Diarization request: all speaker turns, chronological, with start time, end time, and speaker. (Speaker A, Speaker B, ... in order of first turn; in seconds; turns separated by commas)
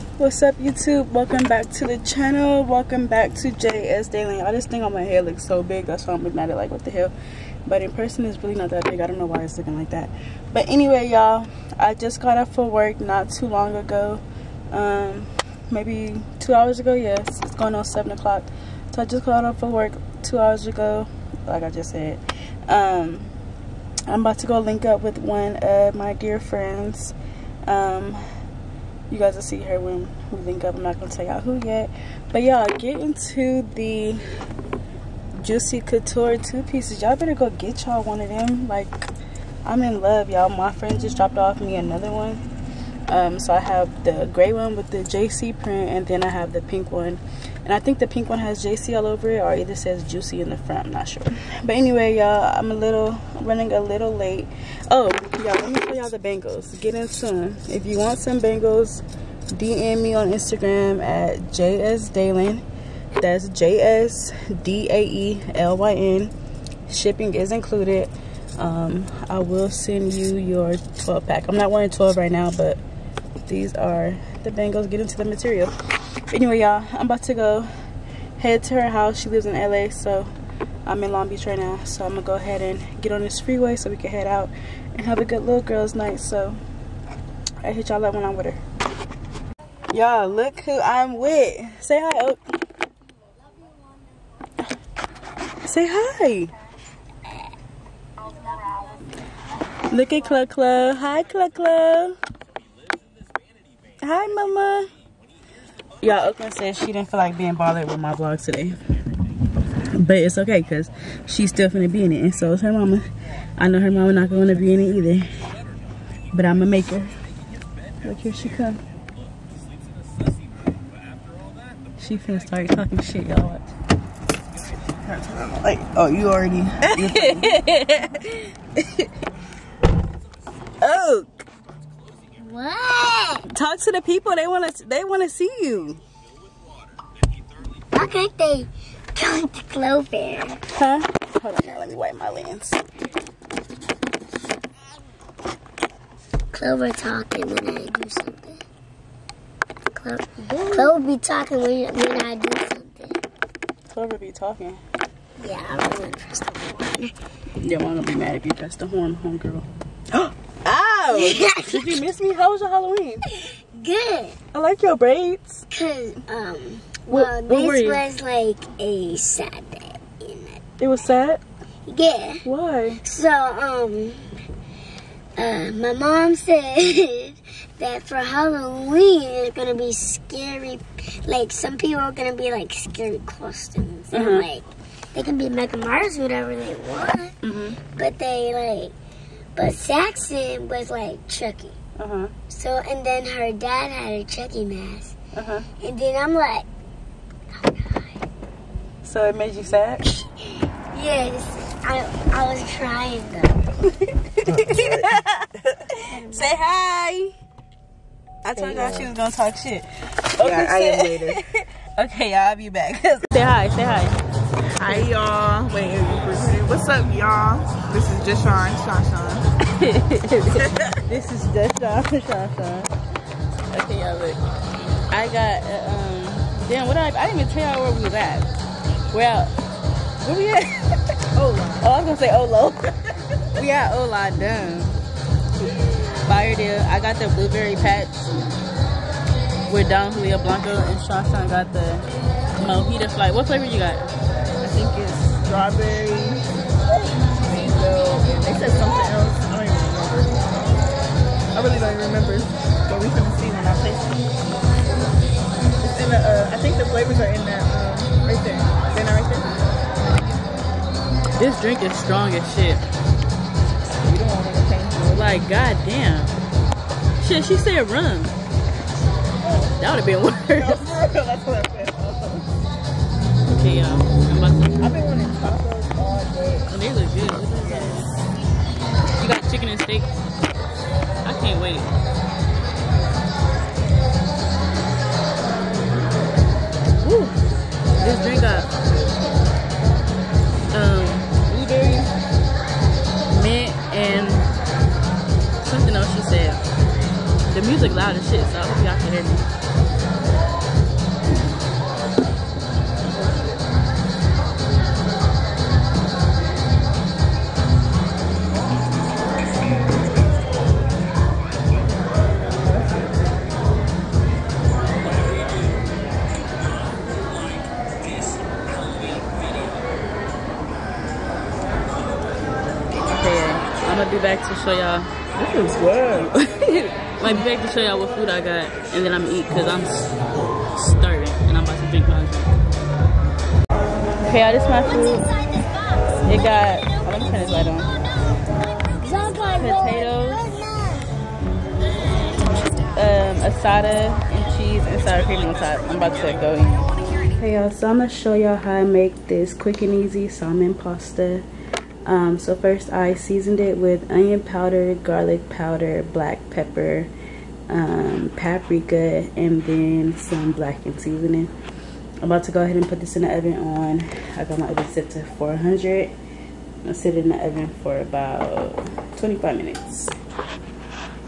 Speaker A: 0.2-7.1, Speaker A: 7.7-23.3, Speaker A: 24.1-28.2, Speaker A: 29.1-34.2, Speaker A: 35.4-39.1, Speaker A: 39.6-42.4, Speaker A: 43.1-62.6, Speaker A: 63.2-66.3, Speaker A: 66.9-72.8, Speaker A: 73.4-75.7, Speaker A: 76.3-77.7, Speaker A: 78.4-80.3, Speaker A: 80.8-86.6, Speaker A: 87.6-88.6, Speaker A: 89.9-92.4, Speaker A: 95.6-96.5, Speaker A: 99.9-102.2, Speaker A: 104.0-104.9, Speaker A: 106.0-108.8, Speaker A: 109.9-115.3, Speaker A: 116.3-117.2, Speaker A: 118.0-118.8, Speaker A: 122.0-123.7, Speaker A: 125.1-128.4, Speaker B: 125.2-127.3, Speaker A: 130.8-131.4, Speaker C: 132.4-133.4, Speaker A: 133.5-136.0, Speaker C: 137.9-140.6, Speaker A: 140.7-142.8, Speaker C: 146.5-148.6, Speaker C: 149.9-153.2, Speaker A: 150.7-150.9, Speaker A: 153.9-154.8, Speaker C: 155.4-157.1, Speaker A: 157.6-163.3, Speaker C: 161.1-162.0, Speaker C: 163.8-164.4, Speaker A: 164.5-165.7, Speaker C: 165.7-170.6, Speaker A: 167.1-168.1, Speaker A: 170.8-171.4, Speaker C: 171.9-172.4, Speaker A: 172.4-173.0, Speaker C: 173.0-174.2, Speaker C: 175.4-187.3, Speaker A: 184.1-184.4, Speaker A: 187.4-187.8, Speaker C: 187.9-188.9, Speaker C: 189.6-191.8, Speaker A: 192.0-192.3, Speaker C: 192.5-195.2, Speaker A: 195.3-195.7, Speaker C: 195.8-196.7, Speaker C: 197.5-198.2, Speaker A: 199.0-200.1, Speaker C: 200.9-203.6, Speaker A: 204.3-207.3, Speaker C: 206.1-206.4, Speaker A: 208.4-214.2, Speaker B: 208.7-209.1, Speaker B: 210.4-211.4, Speaker B: 214.8-219.5, Speaker A: 219.6-222.9, Speaker B: 220.6-221.0, Speaker A: 223.7-224.4, Speaker A: 225.1-228.5, Speaker A: 229.1-229.5, Speaker A: 230.2-231.0, Speaker B: 231.3-231.8, Speaker A: 231.8-233.0, Speaker A: 233.5-235.0, Speaker A: 236.2-238.3, Speaker A: 239.7-242.1, Speaker A: 242.6-244.1, Speaker B: 244.6-246.5, Speaker B: 247.4-250.8, Speaker B: 251.5-254.2, Speaker B: 255.8-259.8, Speaker A: 261.4-262.9, Speaker B: 264.0-265.4, Speaker A: 265.1-266.4, Speaker A: 267.2-268.3, Speaker B: 269.4-269.7, Speaker A: 269.7-270.8, Speaker B: 270.5-272.5, Speaker A: 273.5-274.9, Speaker B: 274.8-276.8, Speaker A: 276.7-278.1, Speaker B: 277.6-278.0, Speaker A: 279.1-280.1, Speaker A: 281.2-281.9, Speaker A: 287.0-287.4, Speaker A: 288.0-288.7, Speaker A: 290.7-292.1, Speaker A: 293.3-294.5, Speaker A: 295.6-296.6, Speaker A: 297.4-299.5, Speaker A: 323.0-332.5, Speaker A: 334.2-335.3, Speaker A: 336.2-337.9, Speaker C: 339.0-341.1, Speaker A: 339.6-340.4, Speaker A: 342.9-351.4, Speaker A: 352.0-357.1, Speaker A: 357.7-361.5, Speaker A: 362.2-366.1, Speaker A: 366.8-370.1